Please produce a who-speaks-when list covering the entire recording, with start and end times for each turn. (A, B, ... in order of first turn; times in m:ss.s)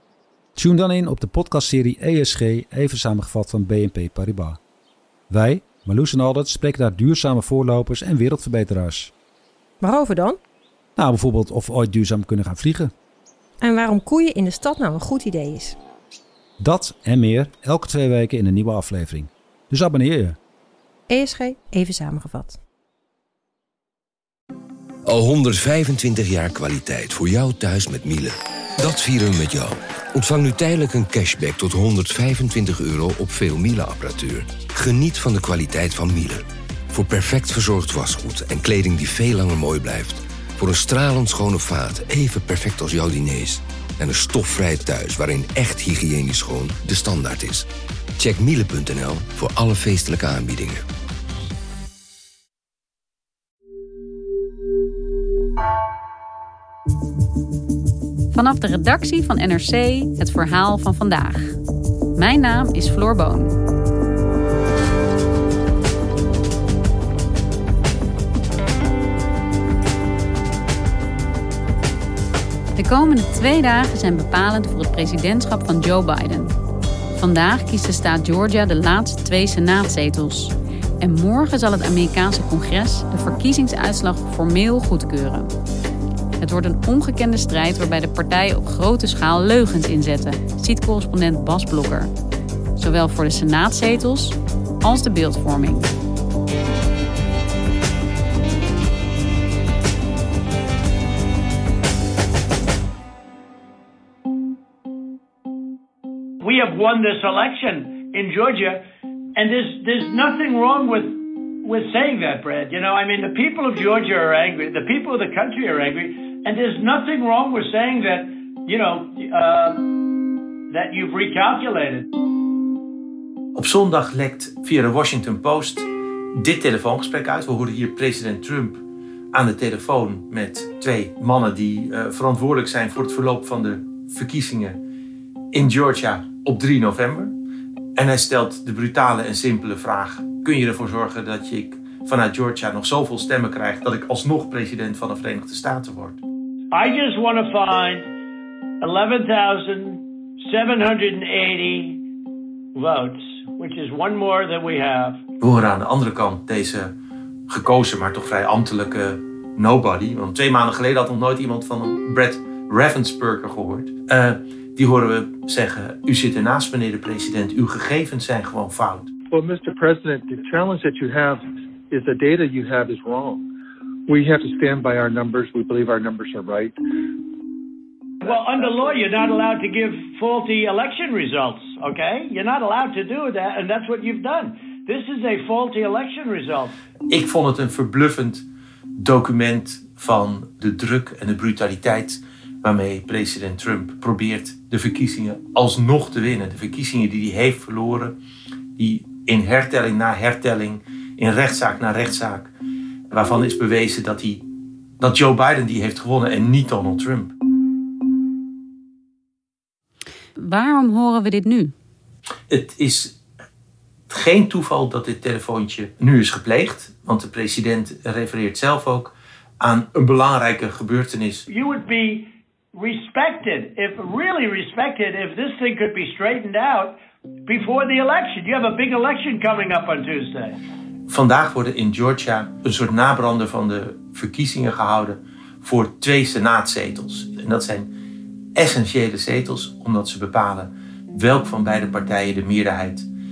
0:00.6-0:04.6 A
0:05.3-0:09.1 A
0:09.8-0:10.4 B
0:11.0-0:12.9 A
0:13.6-0:15.8 B
0:16.6-0:20.4 A
0:21.1-0:22.6 B
0:25.0-0:50.8 C
0:58.3-1:01.6 D
1:02.2-1:03.5 D
1:12.7-1:16.5 D
1:17.2-1:25.5 D
1:26.4-1:32.1 D
1:32.8-1:35.9 D
1:46.4-1:48.8 E
1:49.4-1:59.8 E
2:00.7-2:02.1 E
2:03.5-2:14.8 F
2:15.5-2:17.3 F
2:18.0-2:26.2 F
2:26.7-2:28.1 E
2:28.8-2:32.0 E
2:32.7-2:35.2 E
2:35.4-2:36.9 F
2:37.5-2:49.1 F
2:49.3-2:51.4 G
2:51.9-2:53.4 G
2:54.2-2:56.7 G
2:58.2-3:06.7 E
3:07.1-3:08.4 F
3:09.0-3:18.2 F
3:18.8-3:22.5 F
3:23.1-3:24.4 F
3:25.0-3:27.3 F
3:30.4-3:31.7 D
3:32.5-3:33.2 F
3:34.1-3:41.5 F
3:41.5-3:50.6 E
3:51.1-3:57.9 F
3:58.6-4:03.1 F